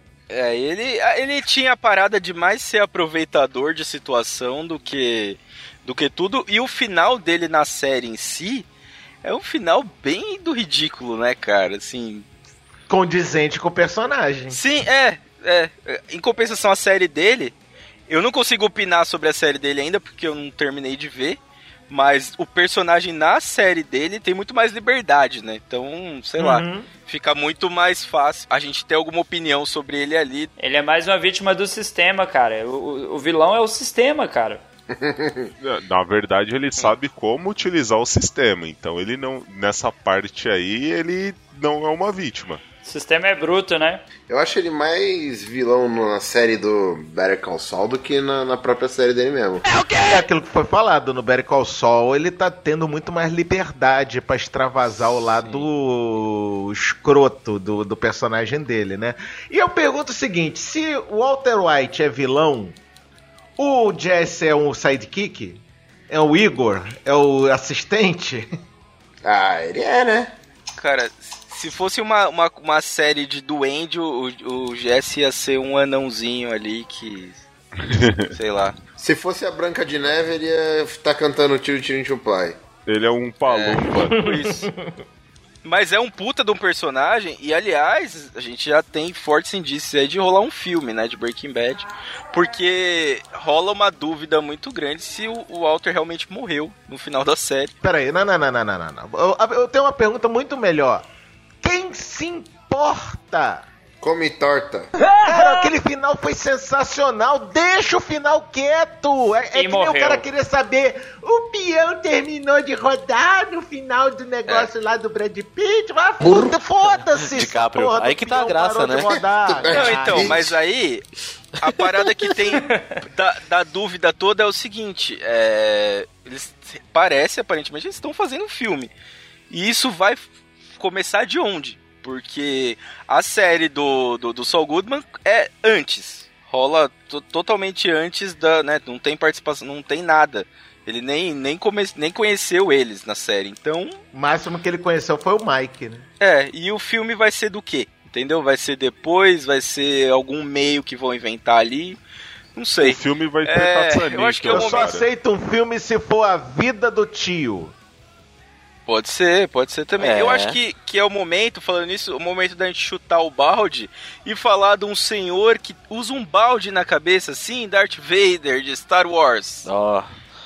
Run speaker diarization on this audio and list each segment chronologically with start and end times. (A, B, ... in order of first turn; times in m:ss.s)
0:00.3-0:08.7 A
0:09.2-0:12.3 A
0:12.9-0:14.6 B
0:14.5-0:17.6 A
0:18.1-0:30.5 A
0:26.4-0:26.9 B
0:30.6-0:34.6 C
0:34.9-0:35.5 D
0:35.6-0:42.6 E
0:42.8-0:44.0 C
0:44.3-0:49.7 D
0:50.0-1:02.8 B
1:03.6-1:08.5 B
1:09.2-1:10.3 D
1:10.8-1:17.4 A
1:17.9-1:18.3 E
1:18.3-1:18.8 A
1:19.0-1:22.6 D
1:22.9-1:24.3 E
1:23.4-1:24.7 A
1:24.2-1:24.7 B
1:25.6-1:37.7 A
1:37.8-1:41.1 B
1:41.6-1:43.7 B
1:44.0-1:44.9 D
1:45.2-2:00.3 B
1:49.5-1:50.2 C
1:57.2-1:59.1 F
1:59.1-2:00.6 D
1:59.7-2:01.0 A
2:01.6-2:08.9 A
2:02.6-2:02.8 C
2:09.5-2:24.0 A
2:24.1-2:26.1 B
2:26.2-2:32.0 A
2:32.6-2:34.9 A
2:32.8-2:35.0 E
2:34.5-2:37.8 B
2:38.9-2:49.7 A
2:40.0-2:40.6 F
2:49.6-2:50.1 F